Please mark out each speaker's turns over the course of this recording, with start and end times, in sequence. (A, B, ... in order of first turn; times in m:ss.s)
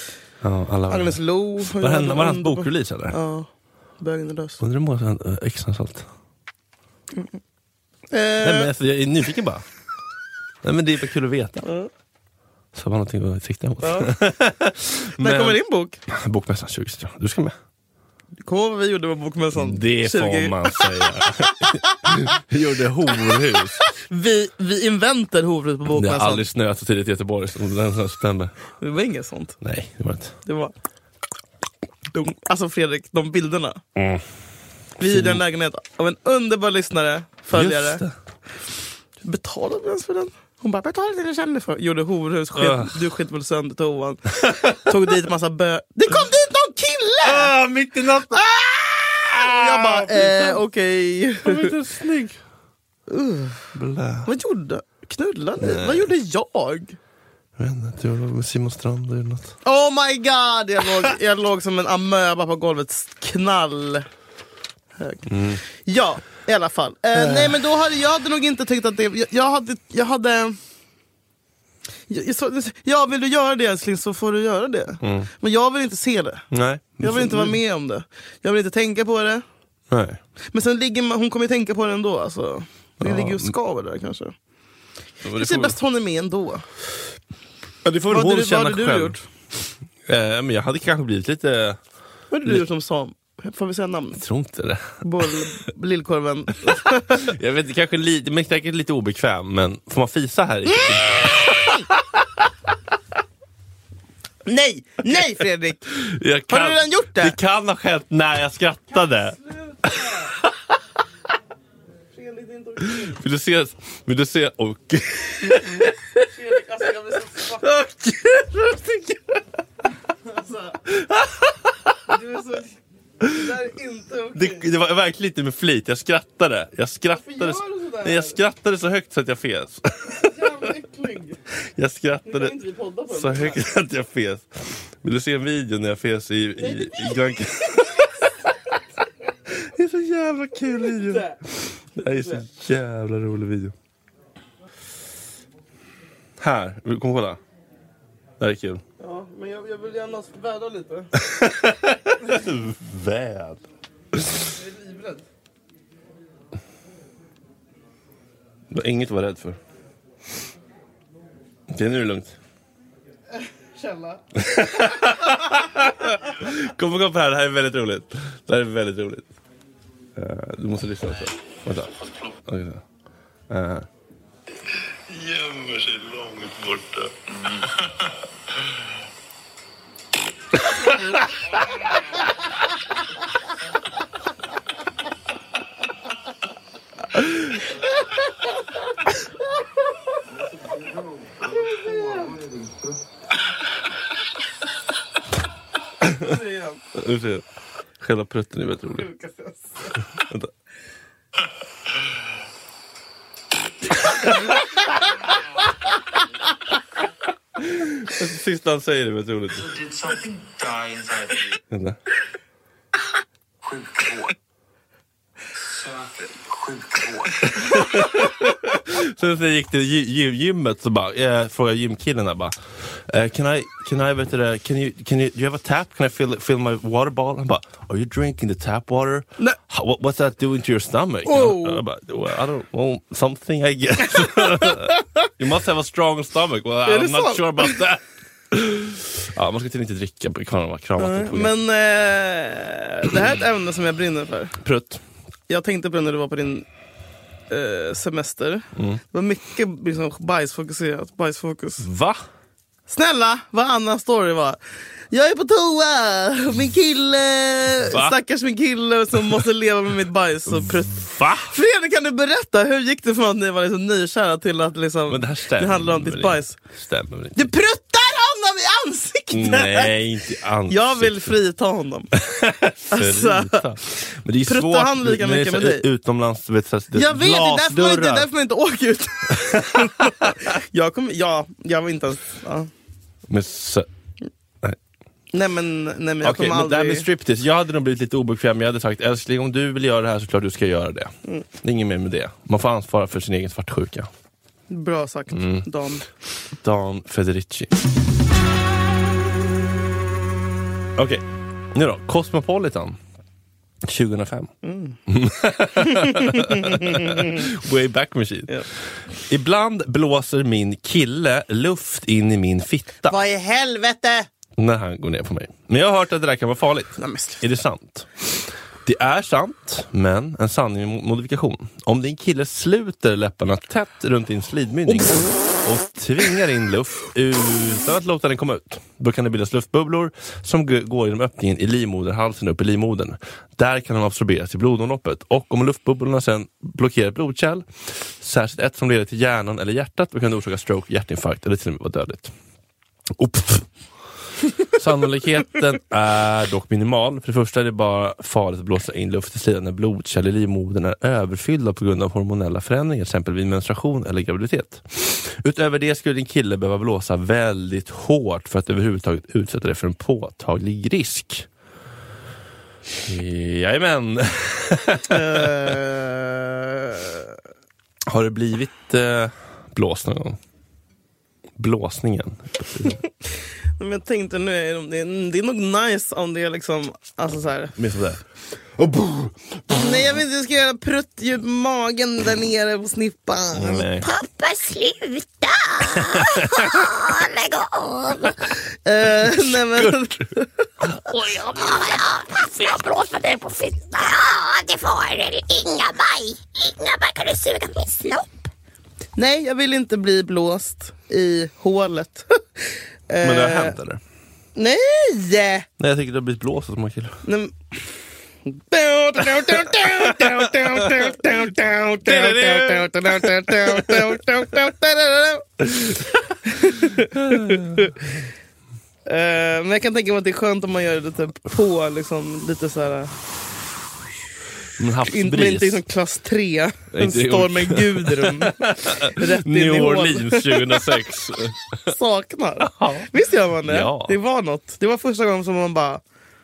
0:00.4-0:03.2 A
0:00.9-0:03.5 B
0:04.0-0:04.6 B
0:04.6-0:06.1 A
0:08.1-0:08.7 B
0:08.4-0:09.6 A
0:10.6-0:11.6 A
0:11.6-0:11.9 B
0:12.7-0:17.5 A
0:13.8-0:14.1 B
0:15.2-0:16.0 B
0:18.4-0:22.2 B
0:19.5-0:23.8 A
0:23.2-0:26.4 B
0:25.9-0:28.5 A
0:28.8-0:29.6 B
0:29.6-0:30.3 A
0:30.4-0:30.7 B
0:32.1-0:33.8 B
0:34.0-0:34.2 A
0:35.0-0:38.0 B
0:35.0-0:35.4 A
0:37.5-0:38.1 A
0:39.2-0:47.6 B
0:42.5-0:43.0 A
0:44.4-0:44.9 A
0:47.2-0:48.4 A
0:48.3-0:51.8 B
0:49.2-0:50.6 A
0:51.4-0:52.4 A
0:53.1-0:53.6 B
0:53.7-0:54.3 A
0:54.2-0:57.0 B
0:55.6-0:56.1 A
0:57.6-0:59.5 A
0:59.6-1:04.1 B
1:05.0-1:10.6 B
1:05.3-1:05.6 A
1:07.1-1:07.6 A
1:12.1-1:16.4 B
1:15.0-1:15.3 A
1:16.5-1:17.6 A
1:17.0-1:19.4 B
1:19.9-1:20.2 A
1:20.5-1:24.3 B
1:23.0-1:23.5 A
1:25.2-1:25.8 A
1:25.3-1:26.7 B
1:27.8-1:29.2 A
1:28.1-1:29.2 B
1:30.0-1:31.8 A
1:32.3-1:34.2 B
1:34.2-1:35.0 A
1:35.0-1:37.3 B
1:36.7-1:42.4 A
1:44.4-1:45.9 B
1:45.9-1:50.4 A
1:46.5-1:47.4 B
1:49.3-1:50.3 B
1:52.1-1:53.2 B
1:52.9-1:56.2 A
1:56.2-1:57.7 B
1:57.5-1:59.4 A
2:00.2-2:00.8 B
2:00.9-2:01.9 A
2:02.1-2:04.7 B
2:03.2-2:03.5 A
2:04.3-2:10.7 A
2:07.1-2:08.4 B
2:10.1-2:11.4 B
2:11.8-2:12.6 A
2:12.2-2:13.6 B
2:13.1-2:18.3 A
2:16.6-2:17.1 B
2:19.5-2:23.7 A
2:20.7-2:21.4 B
2:22.2-2:22.4 B
2:26.4-2:27.4 A
2:28.4-2:28.8 A
2:29.0-2:31.1 B
2:31.1-2:33.6 A
2:34.1-2:34.4 A
2:34.4-2:35.2 B
2:38.7-2:39.6 A
2:41.7-2:42.4 A
2:43.8-2:44.2 B
2:44.3-2:49.3 A
2:50.2-2:52.8 A
2:53.5-2:53.9 A
2:54.9-2:58.7 A
3:00.7-3:01.2 A
3:10.8-3:12.5 C
3:11.5-3:12.4 B
3:16.0-3:16.3 A
3:16.1-3:16.8 B
3:16.9-3:17.4 A
3:18.0-3:19.1 A
3:19.0-3:20.0 B
3:20.2-3:20.5 A
3:24.1-3:24.5 A
3:27.6-3:29.8 A
3:29.6-3:31.5 C
3:31.7-3:32.0 A
3:33.6-3:34.3 C
3:35.7-3:38.1 C
3:37.4-4:01.5 A
3:51.2-3:51.8 B
3:56.8-3:57.8 B
4:01.0-4:04.6 B
4:04.6-4:05.0 A
4:05.5-4:06.7 B
4:07.5-4:11.9 B
4:08.8-4:09.0 A
4:11.8-4:12.2 A
4:12.9-4:14.6 B
4:15.1-4:26.5 B
4:17.9-4:18.2 A
4:20.4-4:21.5 A
4:25.1-4:27.5 A
4:27.3-4:29.9 B
4:29.3-4:31.4 A
4:30.7-4:32.2 B
4:32.2-4:38.3 A
4:32.9-4:33.7 B
4:34.4-4:35.8 B
4:36.9-4:42.7 B
4:39.3-4:40.4 A
4:43.3-4:43.9 A
4:45.3-4:47.1 B
4:46.2-4:54.1 A
4:54.7-4:56.0 B
4:55.3-4:55.7 A
4:56.6-4:57.7 A
5:01.0-5:03.0 A
5:03.8-5:04.5 A
5:04.6-5:05.0 B
5:05.1-5:08.7 A
5:05.8-5:07.4 B
5:09.2-5:13.2 A
5:13.0-5:14.3 B
5:14.6-5:18.1 A
5:17.0-5:17.4 B
5:18.8-5:42.3 A
5:24.9-5:25.2 B
5:43.1-5:43.7 A
5:44.7-6:01.5 A
6:03.0-6:05.8 A
6:05.1-6:07.3 B
6:08.1-6:10.4 A
6:11.6-6:13.0 A
6:13.8-6:17.8 B
6:17.8-6:18.2 A
6:18.8-6:20.1 A
6:19.7-6:23.9 B
6:23.5-6:24.1 A
6:24.0-6:28.5 D
6:25.9-6:26.7 A
6:28.8-6:30.6 B
6:29.2-6:30.1 A
6:31.0-6:38.3 D
6:39.2-6:43.8 B
6:43.2-6:44.0 A
6:44.6-6:45.7 B
6:45.8-6:47.2 A
6:47.2-6:58.0 B
6:49.2-6:51.3 A
6:52.0-6:54.2 A
6:57.0-6:57.9 A
6:59.0-7:03.1 B
7:04.8-7:05.8 A
7:05.0-7:11.0 B
7:06.9-7:11.9 A
7:11.8-7:16.0 B
7:12.6-7:13.1 A
7:13.6-7:14.2 A